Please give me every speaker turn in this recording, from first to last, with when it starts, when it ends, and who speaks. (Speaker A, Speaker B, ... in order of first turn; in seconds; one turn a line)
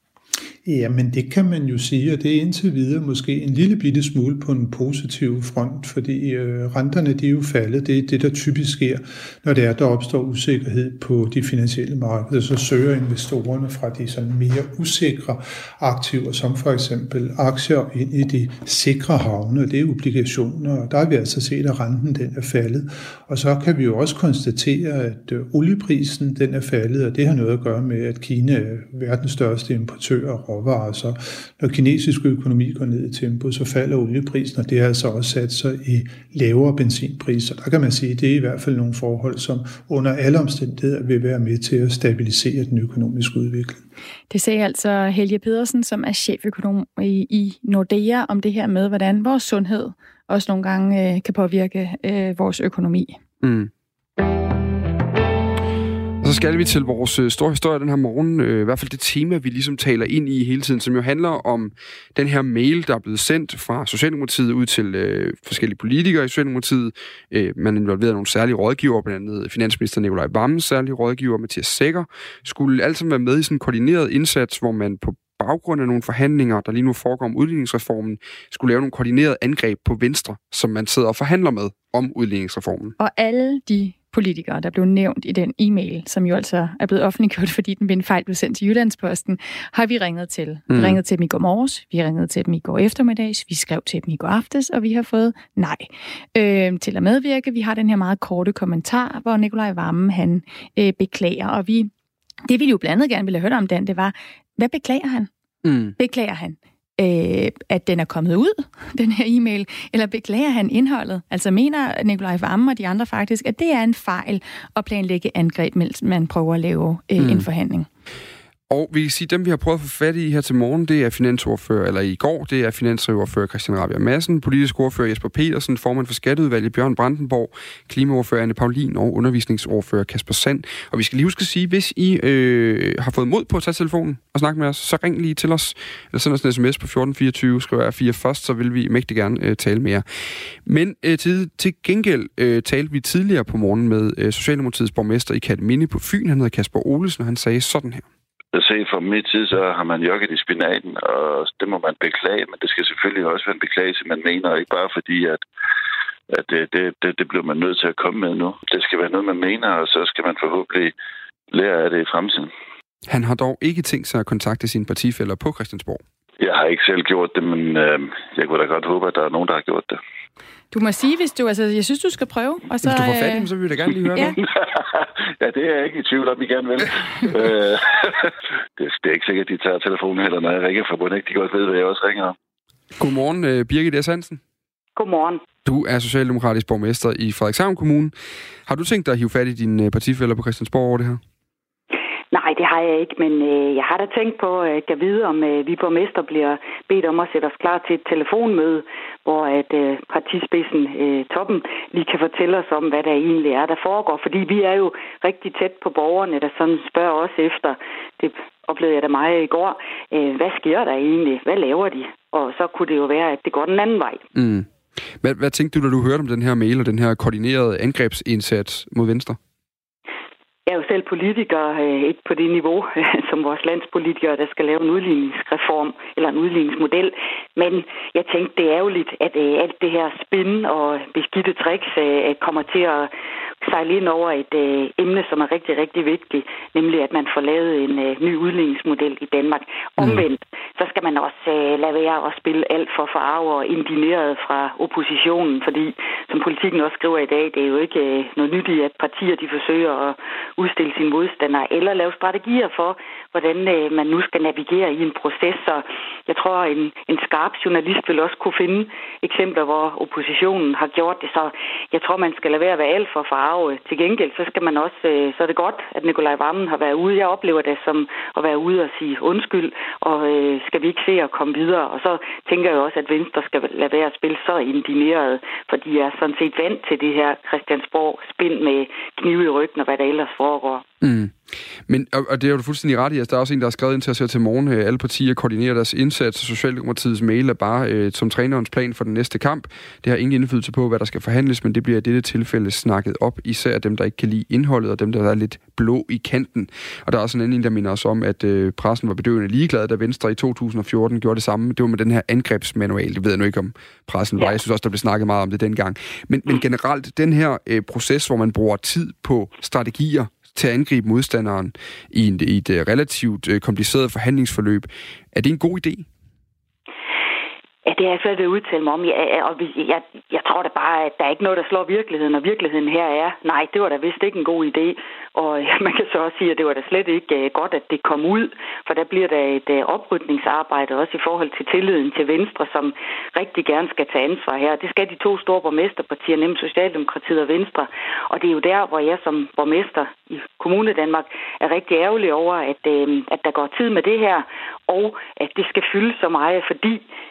Speaker A: 0.6-43.9
Speaker B: 44.3-53.2
Speaker C: 53.4-53.7
Speaker C: 56.2-83.0
Speaker B: 83.0-101.9
Speaker C: 90.7-91.0
Speaker B: 102.5-105.3
Speaker C: 105.6-106.0
Speaker B: 106.0-117.9
Speaker C: 117.2-117.5
Speaker C: 118.7-140.0
Speaker C: 140.6-148.1
Speaker D: 148.5-155.4
Speaker D: 156.3-160.9
Speaker D: 161.5-162.5
Speaker C: 163.1-166.0
Speaker D: 166.4-170.0
Speaker B: 170.7-173.5
Speaker C: 172.8-174.4
Speaker D: 174.6-178.1
Speaker D: 178.8-182.3
Speaker C: 183.0-184.4
Speaker E: 185.0-185.4
Speaker C: 185.6-188.1
Speaker C: 188.7-191.2
Speaker E: 192.3-214.2
Speaker C: 214.3-214.7
Speaker C: 215.2-219.4
Speaker E: 220.7-233.1
Speaker E: 233.6-280.8
Speaker C: 240.0-240.2
Speaker C: 281.0-281.4
Speaker C: 281.9-316.1
Speaker E: 317.9-347.0